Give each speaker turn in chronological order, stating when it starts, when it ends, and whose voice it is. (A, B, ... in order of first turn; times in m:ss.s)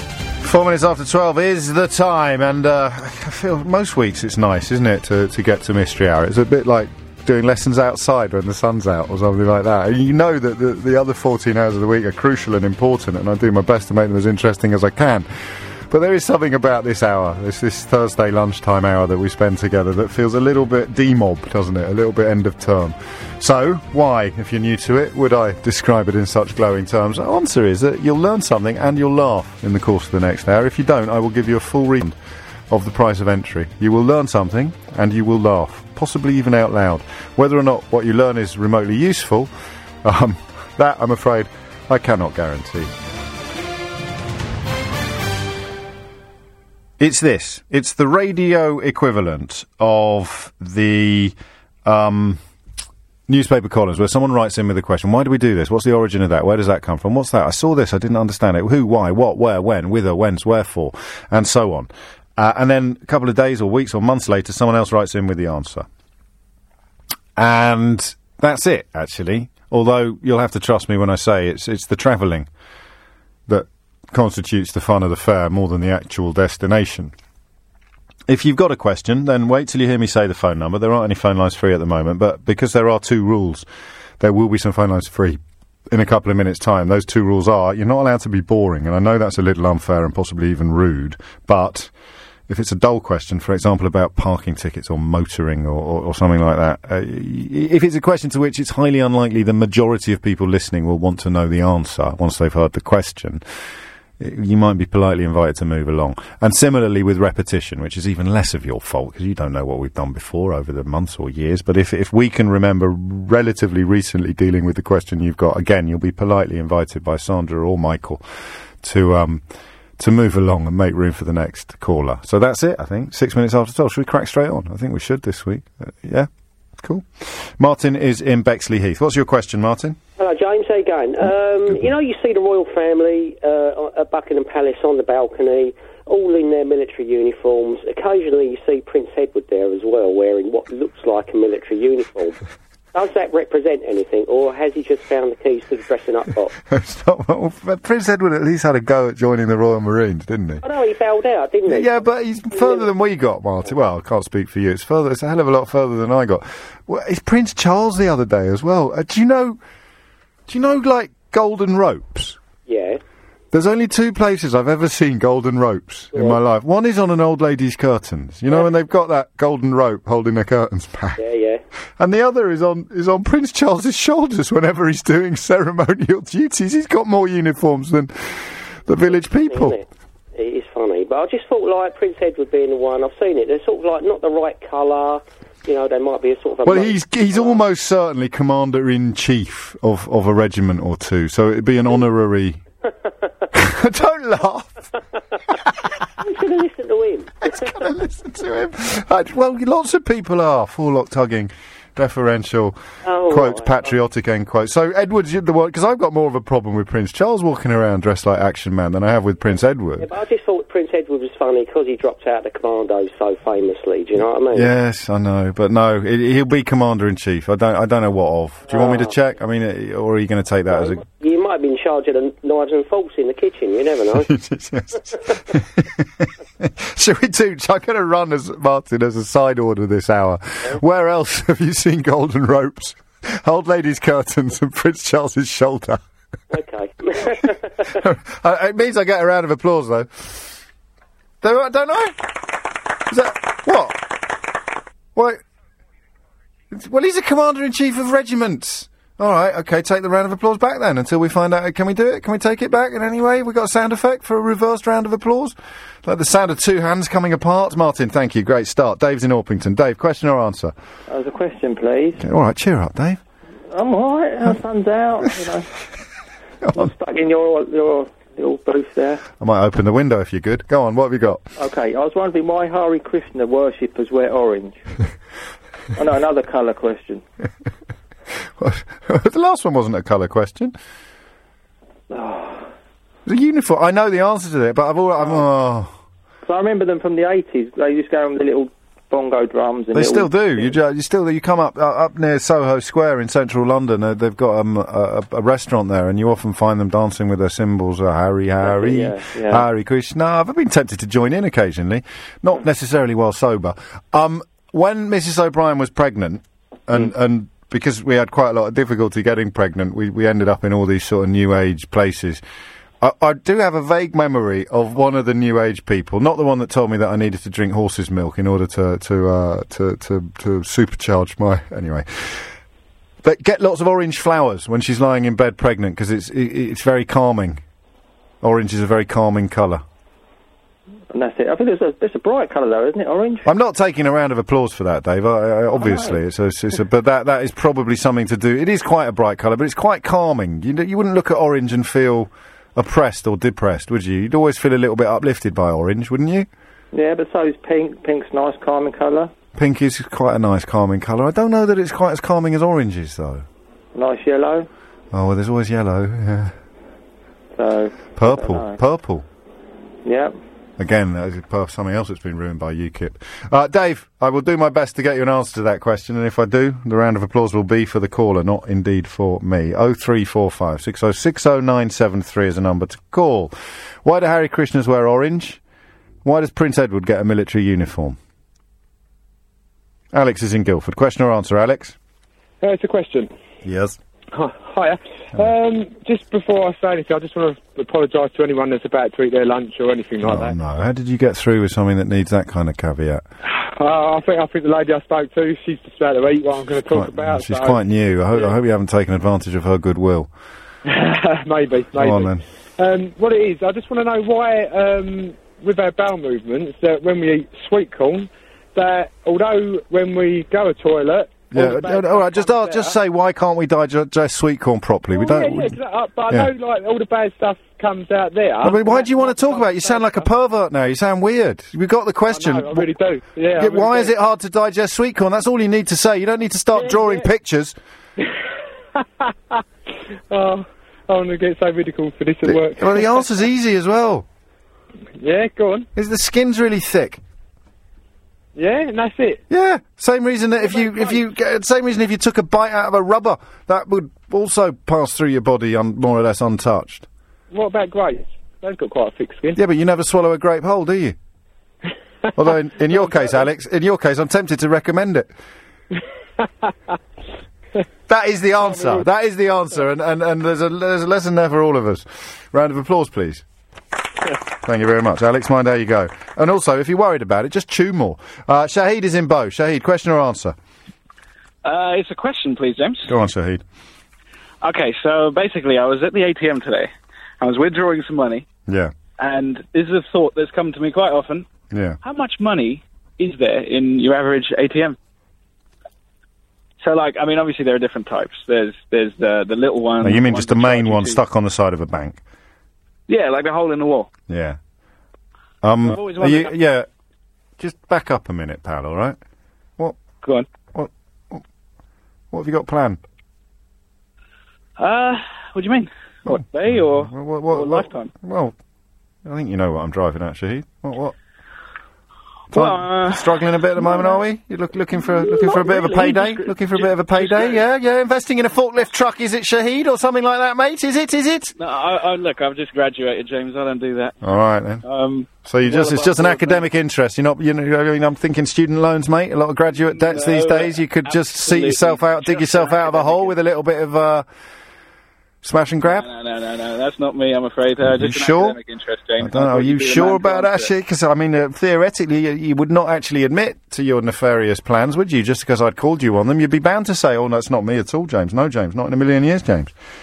0:00.4-0:15.3 A
0:15.9-0:32.2 A
0:32.7-0:39.5 A
0:40.0-0:42.9 A
0:47.0-0:52.4 A
0:53.3-1:05.9 A
1:07.4-1:12.5 A
1:13.5-1:17.1 A
1:18.3-1:23.6 A
1:24.2-1:25.4 A
1:25.9-1:31.9 A
1:32.5-1:43.4 A
1:44.2-1:58.2 A
1:58.8-1:59.4 A
2:00.0-2:06.3 A
2:06.8-2:10.0 A
2:10.2-2:22.4 B
2:22.9-2:26.5 B
2:26.7-2:30.6 A
2:30.6-2:32.9 B
2:31.7-2:39.6 A
2:40.5-2:42.4 A
2:42.7-2:43.0 B
2:43.5-2:51.2 A
2:46.1-2:46.4 B
2:51.2-2:51.6 B
2:52.0-2:59.8 A
2:59.1-3:07.6 B
3:06.6-3:12.6 A
3:13.5-3:14.9 A
3:16.2-3:17.8 B
3:17.4-3:30.1 A
3:23.0-3:23.9 B
3:30.0-3:34.7 B
3:34.5-3:41.0 A
3:38.7-3:39.1 B
3:40.7-3:44.3 B
3:44.1-3:56.0 A
3:56.5-3:57.9 B
3:58.0-4:00.6 A
4:01.4-4:02.4 A
4:03.1-4:04.3 A
4:05.1-4:05.4 A
4:06.7-4:20.7 A
4:21.1-4:22.2 C
4:22.2-4:23.2 A
4:23.7-4:25.7 C
4:26.7-4:29.2 C
4:29.4-4:31.4 A
4:31.6-4:34.8 C
4:36.0-4:37.2 C
4:38.6-4:40.7 A
4:42.1-4:42.7 C
4:43.2-4:45.9 A
4:46.4-4:50.7 C
4:49.9-5:12.4 A
4:58.6-4:59.6 C
5:13.0-5:22.5 A
5:23.2-5:27.6 A
5:28.4-5:29.8 A
5:31.1-5:33.4 C
5:33.4-5:46.5 A
5:35.8-5:36.2 C
5:46.9-5:49.3 C
5:49.5-5:53.4 A
5:53.9-5:54.7 C
5:55.1-5:56.5 A
5:57.6-5:58.8 C
5:58.2-5:59.2 A
6:00.0-6:00.3 C
6:00.8-6:13.5 A
6:14.0-6:15.6 A
6:16.2-6:18.2 A
6:20.1-6:22.0 A
6:22.6-6:23.3 D
6:23.6-6:24.0 A
6:24.3-6:30.5 D
6:30.2-6:33.2 A
6:33.5-6:37.8 D
6:36.9-6:40.3 A
6:40.8-6:52.9 D
6:41.9-6:42.4 A
6:51.5-6:55.8 A
6:55.1-7:00.2 D
6:58.6-7:02.9 A
7:02.3-7:04.1 D
7:03.6-7:07.8 A
7:06.7-7:07.2 D
7:09.0-7:09.6 D
7:10.3-7:13.3 D
7:12.4-7:14.2 A
7:15.2-7:15.9 D
7:16.0-7:17.2 A
7:18.5-7:19.4 D
7:19.5-7:27.1 A
7:20.6-7:21.2 D
7:27.5-7:29.6 D
7:29.6-7:31.2 A
7:32.4-7:35.3 A
7:32.9-7:33.4 D
7:38.1-7:43.4 A
7:38.7-7:39.0 D
7:44.6-7:50.6 A
7:51.6-7:53.1 E
7:53.0-7:53.6 A
7:54.6-7:58.5 E
7:58.7-7:58.9 A
7:59.2-8:01.5 E
8:01.7-8:02.0 A
8:02.0-8:05.0 E
8:06.8-8:11.2 E
8:10.0-8:12.2 A
8:13.1-8:14.1 E
8:14.3-8:14.6 A
8:15.6-8:16.9 A
8:15.8-8:16.6 E
8:17.6-8:19.2 A
8:20.7-8:21.4 A
8:22.3-8:23.0 A
8:24.8-8:28.1 E
8:26.3-8:28.5 A
8:29.2-8:31.2 A
8:32.5-8:34.2 E
8:32.5-8:41.5 A
8:35.0-8:37.6 E
8:41.6-8:44.2 E
8:44.2-8:44.8 A
8:44.8-8:46.6 E
8:45.4-8:54.2 A
8:49.8-8:53.4 E
8:55.4-8:56.1 A
8:55.8-9:00.7 E
8:57.8-8:58.6 A
8:59.2-9:09.7 A